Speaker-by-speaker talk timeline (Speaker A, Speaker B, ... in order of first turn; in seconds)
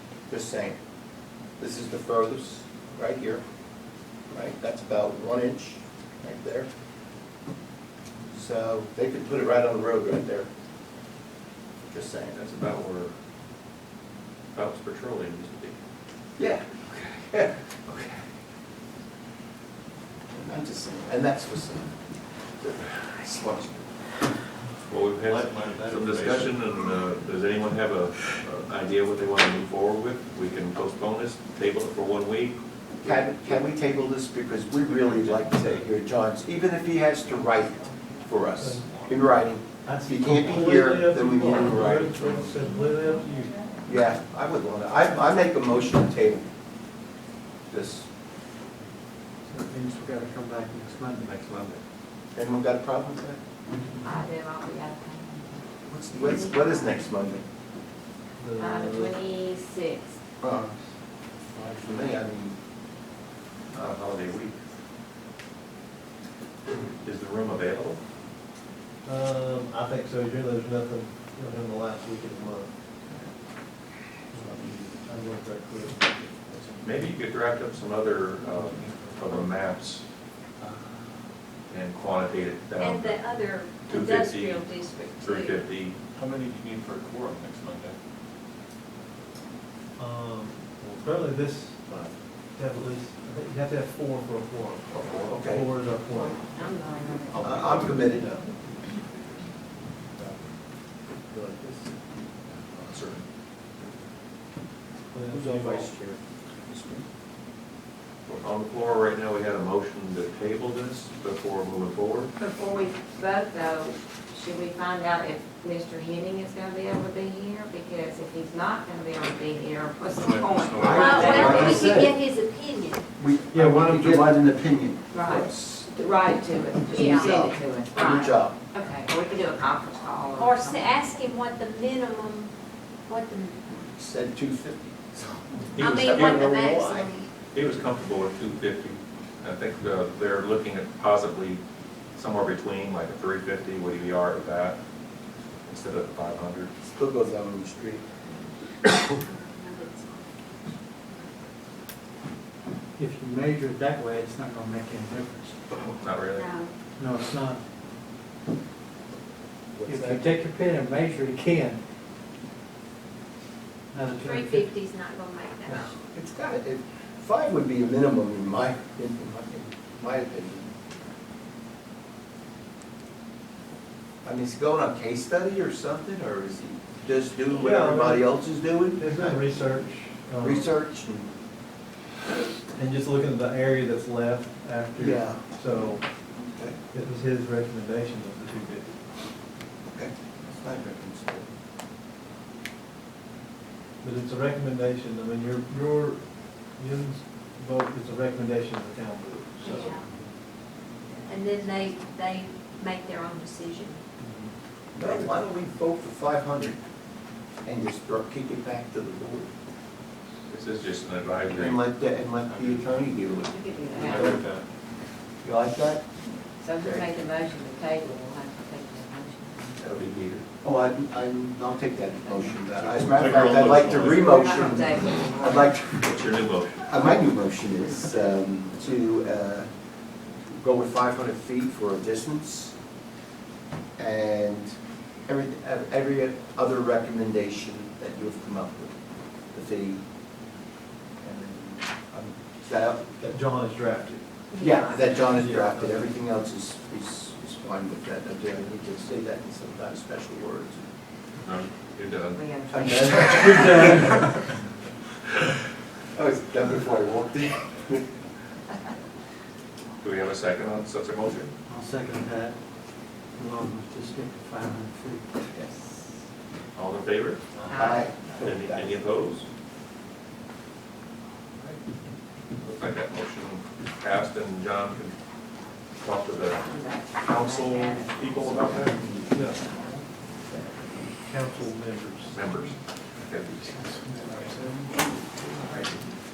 Speaker A: 0.3-0.8, 1.6-3.4, 4.3-6.7, 8.3-10.5, 11.9-12.4, 16.4-17.5, 20.3-21.9, 22.6-24.4, 33.0-42.6, 43.8-46.5, 47.7-48.1, 52.3-53.4, 55.9-57.4, 60.4-60.8, 61.5-62.5, 63.7-64.5, 94.9-95.7, 97.4-98.4, 101.3-101.9, 102.5-103.2, 105.3-107.0, 120.8-122.2, 123.2-125.9, 126.9-128.6, 133.7-137.2, 146.8-148.1, 159.7-160.2, 166.0-170.7, 174.2-179.5, 180.4-181.3, 185.0-185.4, 186.5-186.8, 189.9-191.5, 204.9-206.8, 207.6-209.5, 211.5-214.4, 215.4-216.1, 220.6-226.1, 226.8-229.7, 230.4-232.7, 234.0-239.0, 239.5-240.0, 241.2-243.2, 244.6-250.8, 252.7-254.4, 256.1-258.1, 267.6-269.0
Speaker B: 12.3-13.1, 14.5-15.8, 17.9-18.2, 24.8-32.6, 51.2-51.8, 63.7-64.5, 67.0-68.0, 76.8-80.0, 81.7-83.2, 83.8-86.0, 108.2-112.3, 135.7-136.4, 137.5-141.6, 142.2-144.8, 145.7-146.7, 156.0-156.5, 210.5-211.8, 219.8-220.4, 226.0-227.0, 251.4-252.4, 260.0-261.5, 266.7-267.5, 268.4-269.5, 272.6-275.1, 275.9-279.2, 282.3-284.7, 285.4-286.0
Speaker C: 25.2-26.6, 78.5-79.4, 86.2-88.0, 120.2-121.8, 212.4-212.9, 213.9-214.7, 222.9-224.6
Speaker D: 37.2-38.2, 54.0-57.0, 58.6-60.2, 96.5-97.8, 112.4-122.0, 125.1-130.9, 213.4-214.4, 216.6-219.8, 222.0-222.6, 223.2-225.7, 244.5-245.1, 252.3-253.8, 265.6-266.0, 267.7-268.2, 276.4-279.9
Speaker E: 38.6-39.1, 39.8-43.6, 58.4-59.1, 69.0-72.7, 74.3-76.1, 90.0-96.8, 97.3-98.6, 105.1-105.9, 123.5-124.4, 177.6-180.7, 182.7-186.1, 186.9-189.0, 194.0-200.0, 204.2-204.5, 243.2-244.2, 245.2-246.2, 253.6-254.2, 281.2-282.7
Speaker F: 42.6-43.7, 82.8-85.6, 121.0-123.0, 126.9-127.4, 130.4-132.5, 133.1-133.7, 135.8-137.3, 149.3-150.2, 156.3-156.7, 164.2-165.9, 199.6-200.0, 201.3-204.0
Speaker G: 49.5-51.3, 153.0-155.9, 157.0-157.6, 159.8-161.8, 163.9-164.7, 261.7-262.6, 263.3-265.2